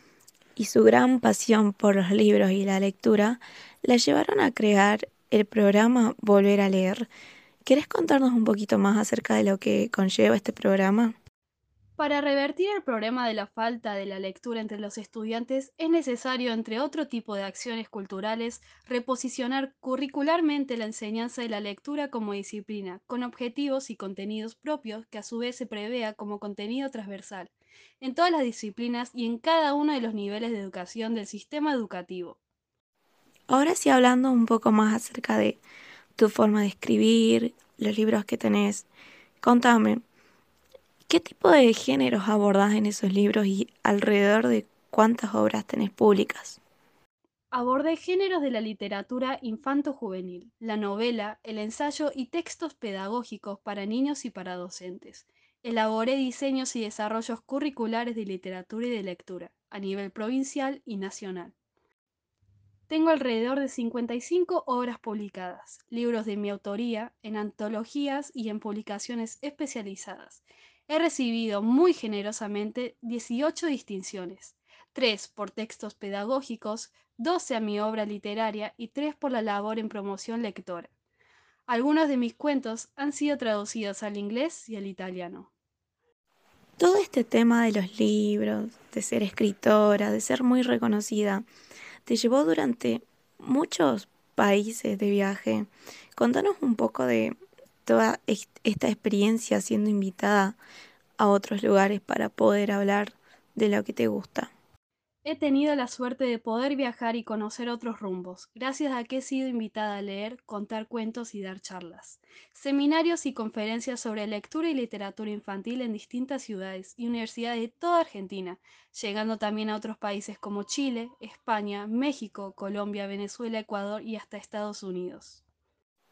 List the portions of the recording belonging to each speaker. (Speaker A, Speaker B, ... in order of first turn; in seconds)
Speaker A: 0.6-7.1, 7.6-11.1, 33.5-35.6, 36.2-38.9, 39.4-40.0, 41.1-46.6, 86.8-91.5, 92.0-97.3, 97.8-100.6, 101.2-104.5
Speaker B: 12.0-32.4, 47.5-61.5, 62.9-80.9, 81.7-85.5, 105.2-125.4